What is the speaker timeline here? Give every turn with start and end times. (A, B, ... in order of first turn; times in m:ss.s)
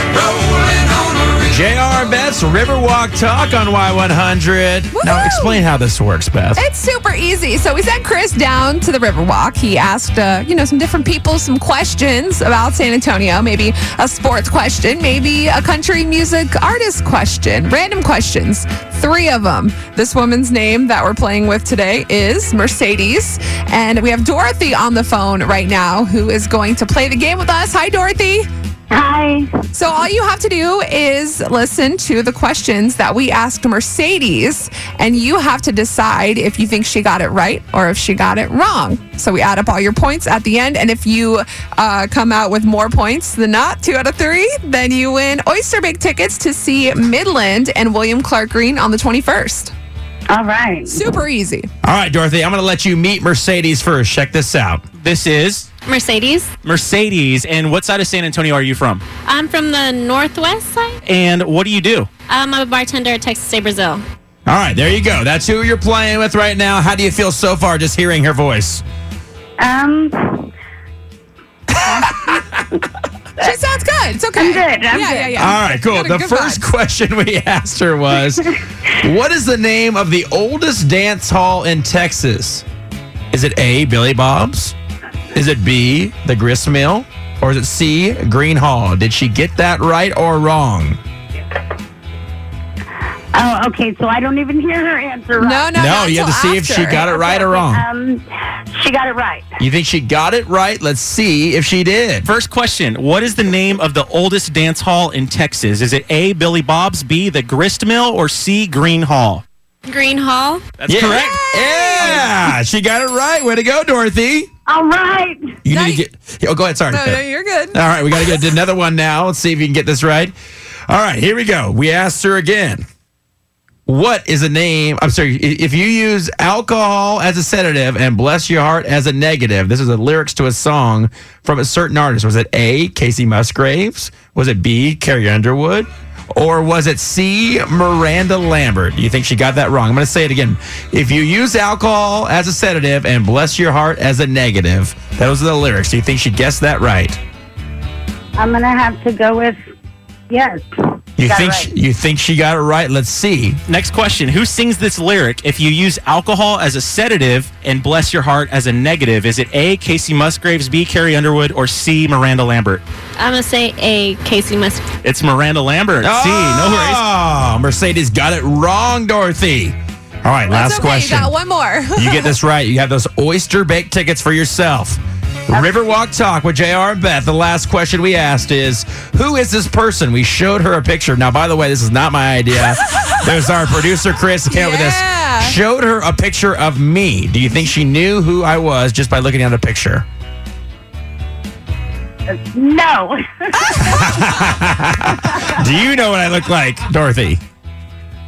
0:01.4-0:06.6 A
0:04.9-0:05.7 B
0:06.6-0:28.4 B
0:28.9-0:29.5 C
0:29.7-0:49.7 B
0:50.3-0:51.0 C
0:50.9-0:51.7 B
0:51.8-0:54.8 A
0:55.0-0:55.7 D
0:55.8-0:56.5 E
0:56.6-0:59.0 D
0:59.2-1:01.0 E
1:01.0-1:02.1 D
1:02.3-1:04.0 E
1:04.4-1:08.8 A
1:09.6-1:10.5 C
1:11.8-1:12.1 C
1:13.4-1:16.6 B
1:14.3-1:15.5 C
1:15.4-1:22.6 A
1:23.3-1:24.7 A
1:25.3-1:31.0 A
1:33.3-1:35.7 C
1:35.4-1:37.1 B
1:35.7-1:37.8 A
1:36.9-1:38.2 C
1:38.7-1:39.5 C
1:39.6-1:42.3 A
1:42.2-1:49.4 D
1:49.9-1:50.6 E
1:50.8-1:51.4 D
1:50.9-1:54.5 A
1:51.2-1:52.5 B
1:54.7-1:55.6 C
1:55.6-2:00.3 A
1:55.7-1:56.0 B
1:56.9-1:58.4 B
2:00.9-2:02.8 A
2:03.9-2:27.2 A
2:28.4-2:29.6 C
2:30.3-2:30.6 C
2:31.2-2:33.6 A
2:31.2-2:31.7 C
2:33.7-2:42.8 D
2:43.2-2:44.8 E
2:45.0-2:47.0 D
2:46.0-2:51.3 A
2:50.5-2:52.4 B
2:52.0-3:10.0 A
3:02.7-3:03.5 B
3:04.4-3:05.6 B
3:12.3-3:14.3 C
3:13.6-3:14.0 B
3:13.7-3:17.4 A